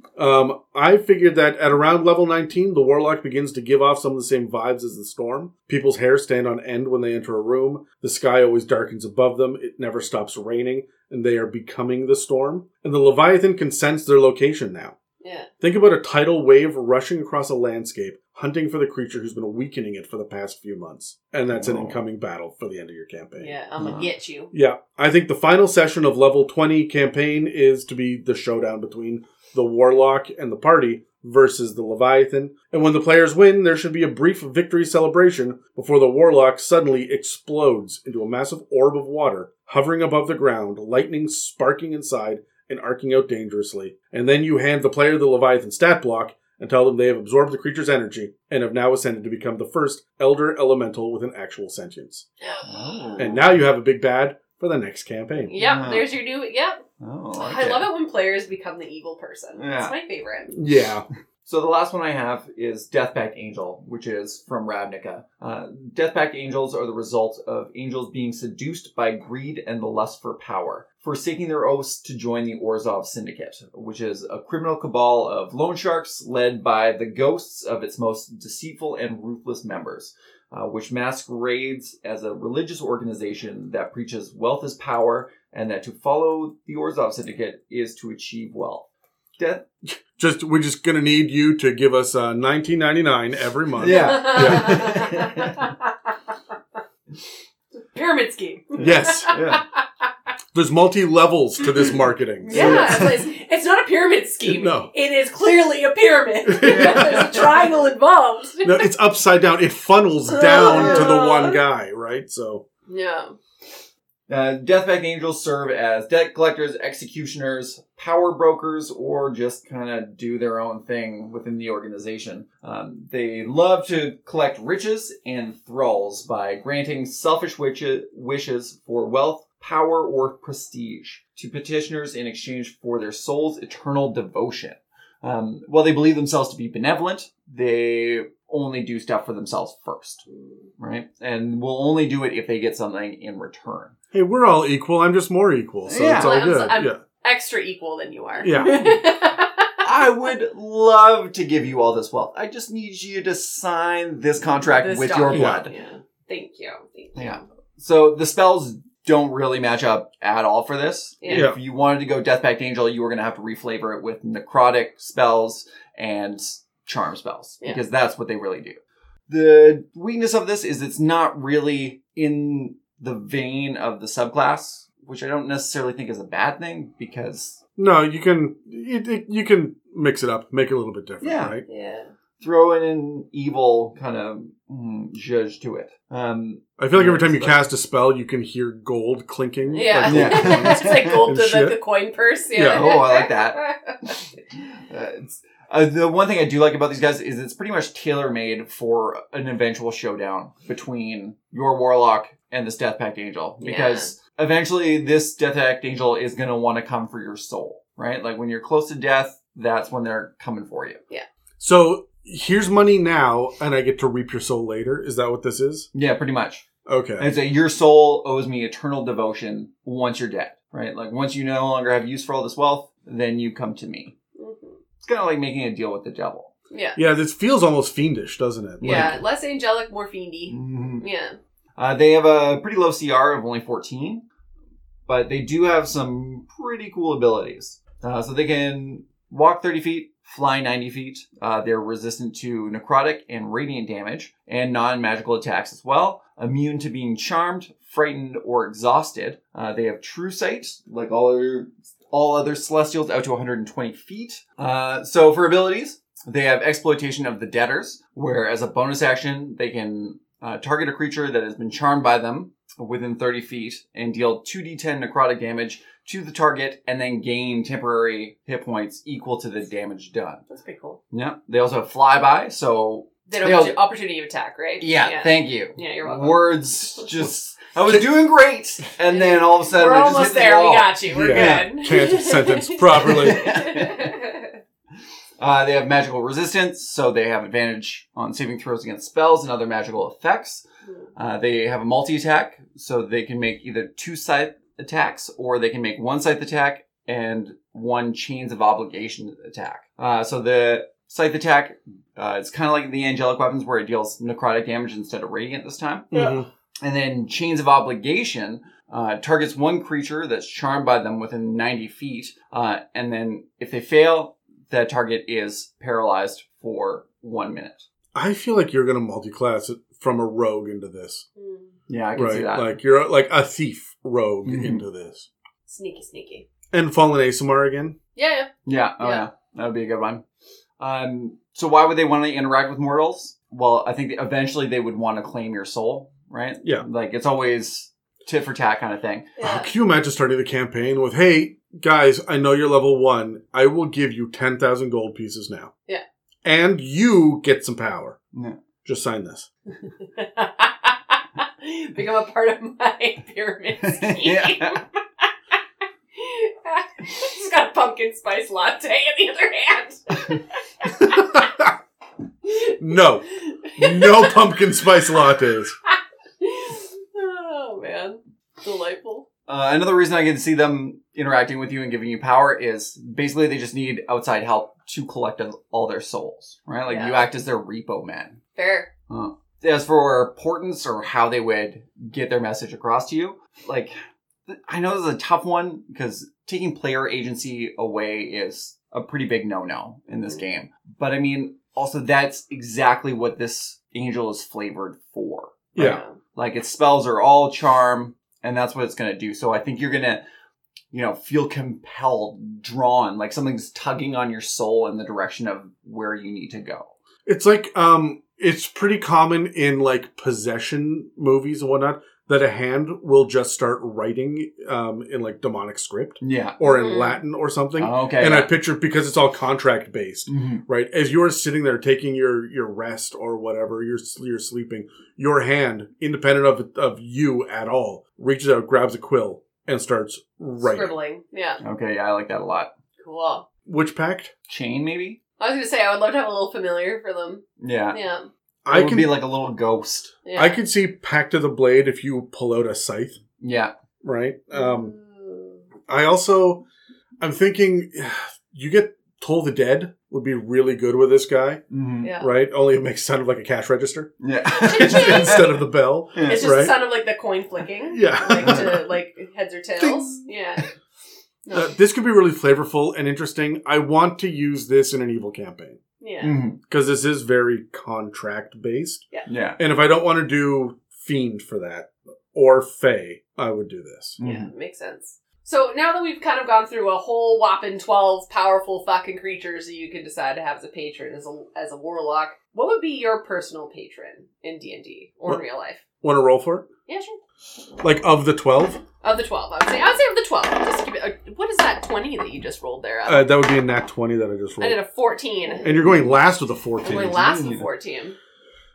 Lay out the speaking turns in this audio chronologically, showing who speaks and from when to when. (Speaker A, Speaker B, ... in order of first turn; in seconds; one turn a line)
Speaker A: 0.2-15.0
Speaker B: 15.2-15.5
Speaker A: 15.6-23.6
Speaker C: 21.5-22.0
Speaker B: 23.4-24.5
Speaker C: 23.8-24.1
Speaker A: 24.5-52.3
Speaker B: 52.4-52.7
Speaker C: 52.6-53.6
Speaker A: 53.2-55.5
Speaker B: 55.5-56.8
Speaker C: 55.6-56.2
Speaker C: 57.0-57.9
Speaker B: 57.4-60.5
Speaker C: 59.6-59.9
Speaker A: 60.5-61.1
Speaker C: 61.5-88.9
Speaker C: 89.4-89.6
Speaker A: 89.8-95.0
Speaker C: 93.8-95.6
Speaker B: 93.9-95.9
Speaker B: 97.8-99.8
Speaker A: 98.8-99.4
Speaker C: 99.3-99.6
Speaker A: 100.5-103.0
Speaker B: 102.4-108.9
Speaker C: 102.5-103.2
Speaker A: 104.4-104.9
Speaker A: 106.5-107.5
Speaker C: 106.6-107.4
Speaker A: 108.6-112.7
Speaker B: 110.3-111.6
Speaker C: 110.6-111.2
Speaker B: 112.9-113.4
Speaker C: 114.3-140.2
Speaker C: 140.8-143.9
Speaker A: 144.1-147.0
Speaker C: 145.9-146.6
Speaker B: 146.2-149.9
Speaker A: 148.4-149.0
Speaker C: 149.8-155.7
Speaker B: 154.7-157.4
Speaker A: 155.3-155.6
Speaker C: 157.2-168.8
Speaker B: 161.2-161.5
Speaker A: 161.3-161.6
Speaker C: 169.3-177.6
Speaker A: 177.8-181.6
Speaker C: 181.2-181.6
Speaker B: 181.7-182.1
Speaker C: 182.4-187.6
Speaker A: 186.8-191.8
Speaker B: 189.7-194.2
Speaker C: 190.1-191.3
Speaker C: 192.5-193.6
Speaker C: 194.6-211.0
Speaker B: 203.6-204.1
Speaker A: 211.6-215.9
Speaker C: 215.9-216.7
Speaker A: 216.8-217.3
Speaker C: 217.2-224.1
Speaker B: 224.4-224.8
Speaker C: 225.0-226.5
Speaker B: 226.7-227.0
Speaker A: 227.0-229.2
Speaker C: 228.8-229.2
Speaker B: 228.8-231.4
Speaker C: 230.5-231.1
Speaker C: 231.8-234.2
Speaker C: 235.1-270.4
Speaker B: 270.5-271.0
Speaker C: 271.1-273.8
Speaker B: 273.3-277.1
Speaker C: 274.8-281.8
Speaker B: 279.1-284.6
Speaker A: 281.1-283.5
Speaker C: 282.9-284.1
Speaker C: 285.4-290.6
Speaker C: 291.2-317.9
Speaker A: 306.1-306.5
Speaker A: 318.1-321.2
Speaker B: 321.4-321.7
Speaker C: 321.9-322.8
Speaker A: 322.1-325.3
Speaker C: 324.4-324.8
Speaker B: 325.7-326.4
Speaker A: 326.7-328.0
Speaker B: 328.2-329.3
Speaker C: 328.7-330.2
Speaker C: 330.8-339.3
Speaker B: 339.4-339.7
Speaker A: 339.4-345.7
Speaker A: 346.4-348.2
Speaker C: 348.3-348.6
Speaker A: 348.8-349.5
Speaker B: 350.0-355.2
Speaker C: 353.8-354.8
Speaker B: 356.1-361.3
Speaker A: 361.0-361.7
Speaker A: 362.7-365.8
Speaker B: 363.7-364.3
Speaker B: 365.9-369.3
Speaker C: 369.5-378.4
Speaker B: 376.9-377.3
Speaker B: 378.6-378.9
Speaker C: 379.1-384.0
Speaker C: 384.5-395.8
Speaker A: 395.8-396.0
Speaker B: 395.8-396.2
Speaker C: 396.3-400.2
Speaker C: 400.9-406.9
Speaker A: 407.3-431.0
Speaker C: 416.2-416.6
Speaker B: 416.6-417.2
Speaker C: 417.8-418.5
Speaker C: 420.3-420.6
Speaker B: 430.6-431.6
Speaker C: 431.6-432.7
Speaker B: 433.0-433.5
Speaker A: 433.7-434.3
Speaker C: 434.5-435.2
Speaker B: 435.4-438.3
Speaker C: 437.6-438.0
Speaker A: 438.6-439.2
Speaker C: 438.7-440.2
Speaker B: 440.2-440.6
Speaker A: 440.4-443.2
Speaker C: 443.4-443.7
Speaker A: 444.0-444.9
Speaker B: 444.5-445.6
Speaker A: 445.9-446.6
Speaker A: 447.2-451.6
Speaker C: 451.7-452.1
Speaker B: 452.0-452.3
Speaker A: 452.2-456.8
Speaker C: 454.2-455.6
Speaker B: 454.5-455.4
Speaker C: 456.1-456.5
Speaker B: 456.3-460.6
Speaker A: 457.9-458.8
Speaker A: 459.8-460.3
Speaker B: 461.4-461.7
Speaker A: 461.5-465.8
Speaker B: 466.0-466.4
Speaker C: 466.2-466.6
Speaker A: 466.7-469.0
Speaker C: 469.3-469.6
Speaker A: 469.6-474.2
Speaker C: 474.2-474.5
Speaker B: 474.2-485.8
Speaker A: 486.0-486.7
Speaker B: 486.9-487.2
Speaker A: 487.8-488.8
Speaker B: 489.0-493.3
Speaker A: 493.1-494.8
Speaker B: 494.6-495.8
Speaker A: 495.6-497.3
Speaker B: 496.8-498.2
Speaker C: 497.0-497.7